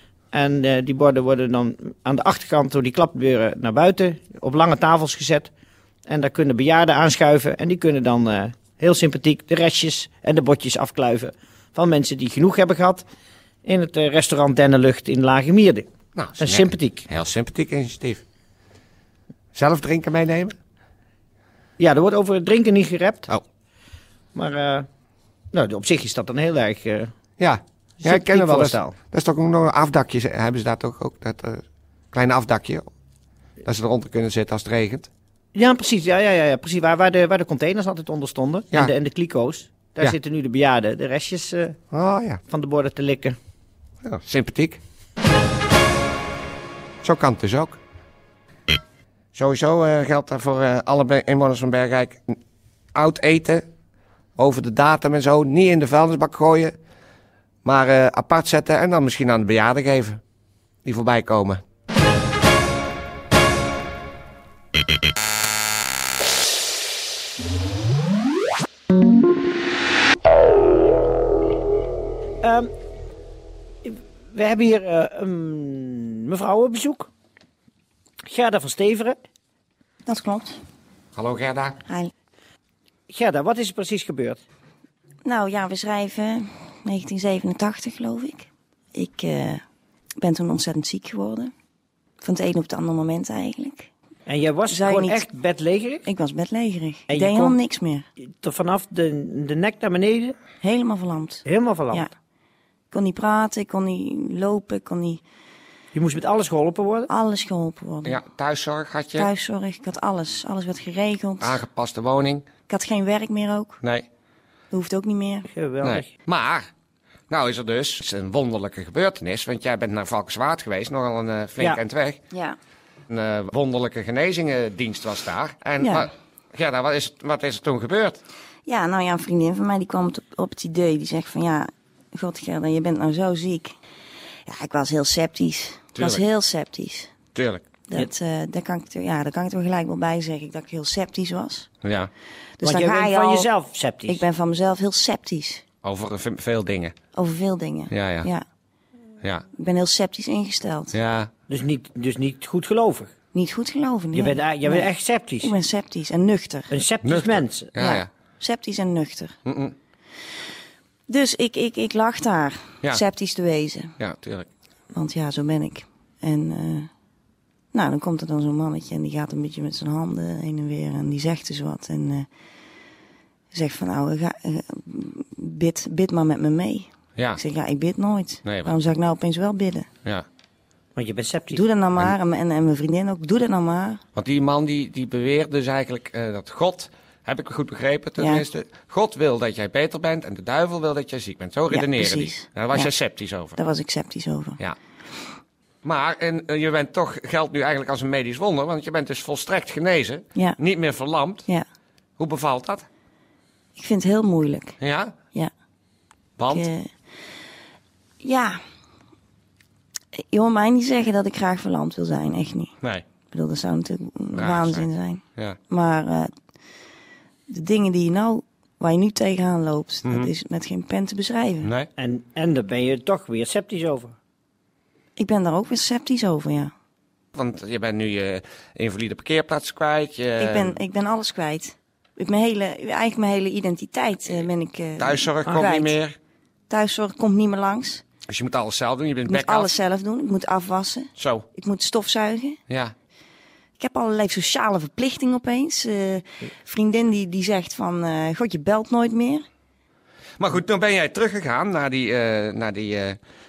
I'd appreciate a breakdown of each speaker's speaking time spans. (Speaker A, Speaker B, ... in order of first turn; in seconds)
Speaker A: 0.3-5.5, 6.1-13.0, 13.6-15.9, 16.4-17.1, 21.8-23.3, 24.3-24.9, 25.5-27.1, 28.0-28.9, 35.5-41.8, 42.5-43.4, 72.4-72.7, 73.8-77.1, 78.3-79.2, 83.1-84.4, 94.3-96.1, 97.1-97.6, 98.4-100.4, 101.4-102.1, 105.9-107.1, 115.5-116.1, 142.6-144.2, 151.5-153.1, 154.1-155.6, 156.7-157.7, 180.9-181.6, 222.0-224.2
Speaker B: 16.1-18.2, 19.5-20.6, 27.4-32.9, 33.6-35.1, 41.9-42.4, 44.0-44.8, 47.0-47.8, 49.3-52.4, 52.9-53.6, 54.4-56.7, 57.6-60.2, 60.8-61.6, 81.2-81.8, 108.0-109.3, 111.4-112.5, 115.8-116.7, 117.3-122.2, 123.1-128.2, 135.9-136.2, 137.3-137.6, 141.8-142.1, 145.8-146.9, 147.9-148.3, 150.9-151.3, 157.0-158.1, 159.4-159.7, 164.0-164.5, 178.4-178.7, 184.1-193.6, 195.8-201.5, 202.2-202.8, 204.8-205.1, 206.4-206.7, 214.3-215.6, 220.0-220.3, 221.6-221.9, 227.3-230.8, 235.0-236.2, 238.3-239.7, 241.2-241.4, 242.7-242.9, 250.4-253.2
Speaker C: 80.0-80.6, 81.8-82.1, 85.2-89.6, 90.2-91.5, 92.2-93.9, 94.7-95.2, 96.0-98.0, 100.6-102.1, 102.9-105.2, 107.1-108.2, 109.1-111.6, 112.7-113.8, 114.7-115.5, 125.8-126.1, 128.7-133.7, 134.4-137.1, 137.9-141.7, 142.6-143.5, 144.1-145.6, 147.1-148.4, 149.6-150.9, 153.3-154.9, 155.4-156.7, 157.8-159.3, 161.1-163.9, 164.9-166.9, 167.7-172.3, 173.5-179.9, 181.5-184.0, 188.2-188.4, 191.7-192.9, 193.5-194.6, 203.8-204.8, 206.5-206.9, 208.2-208.6, 210.3-212.7, 213.3-216.3, 217.5-221.7, 225.2-226.7, 230.4-236.0, 236.7-238.0, 239.2-242.6, 243.8-249.4